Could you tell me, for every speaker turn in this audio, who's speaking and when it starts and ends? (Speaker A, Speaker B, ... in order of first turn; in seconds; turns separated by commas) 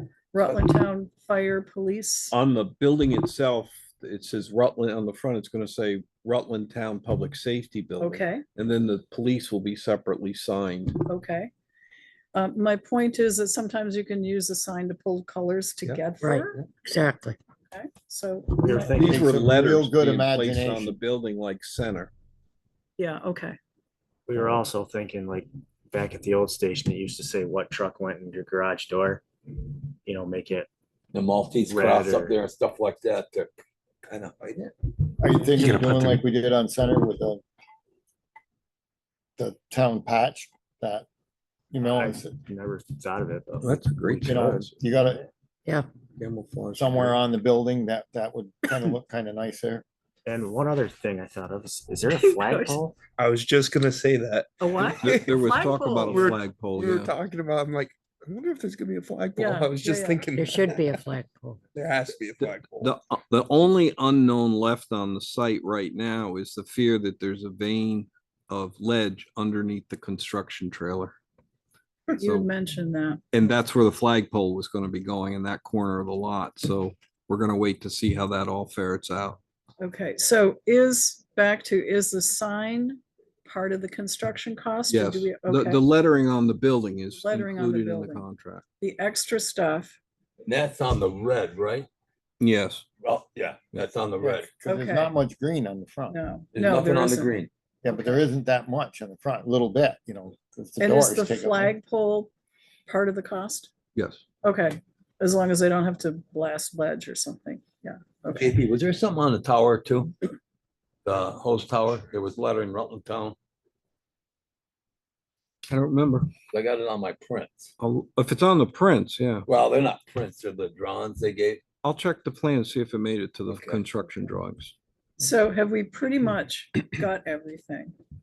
Speaker A: 0.3-2.3, Speaker B: 2.3-11.0, Speaker A: 8.0-8.4, Speaker A: 11.1-11.5, Speaker A: 12.3-16.6, Speaker C: 16.2-17.4, Speaker A: 17.7-19.1, Speaker D: 18.6-19.4, Speaker B: 18.9-22.1, Speaker E: 19.0-21.0, Speaker A: 23.0-23.6, Speaker D: 24.3-29.2, Speaker D: 29.9-30.7, Speaker F: 31.1-33.5, Speaker D: 31.6-32.4, Speaker F: 34.1-34.6, Speaker E: 35.2-37.4, Speaker F: 35.6-36.2, Speaker E: 39.4-41.1, Speaker E: 41.7-42.4, Speaker D: 41.8-43.8, Speaker B: 43.6-44.7, Speaker E: 44.2-45.3, Speaker B: 46.2-47.2, Speaker E: 46.8-49.8, Speaker D: 50.3-53.0, Speaker A: 52.1-52.8, Speaker G: 53.2-61.0, Speaker A: 54.6-56.4, Speaker B: 55.0-57.1, Speaker A: 59.4-60.3, Speaker C: 60.3-61.6, Speaker G: 61.8-63.0, Speaker B: 62.4-71.2, Speaker A: 72.1-73.2, Speaker B: 72.2-72.5, Speaker B: 73.3-79.4, Speaker A: 79.8-85.9, Speaker B: 84.9-88.7, Speaker A: 87.1-88.2, Speaker A: 88.8-90.0, Speaker F: 90.4-91.9, Speaker B: 92.4-92.9, Speaker F: 93.0-94.6, Speaker E: 94.2-96.2, Speaker A: 94.6-95.1, Speaker A: 96.1-97.5, Speaker F: 96.5-97.5, Speaker E: 97.8-101.8, Speaker A: 100.8-102.3, Speaker A: 102.9-103.7, Speaker B: 104.0-104.2, Speaker A: 104.4-108.6, Speaker F: 108.3-110.2, Speaker F: 111.0-113.4, Speaker B: 115.7-116.3, Speaker F: 116.5-117.7, Speaker B: 117.8-119.5, Speaker F: 119.5-121.6, Speaker B: 121.8-124.7, Speaker A: 125.2-127.9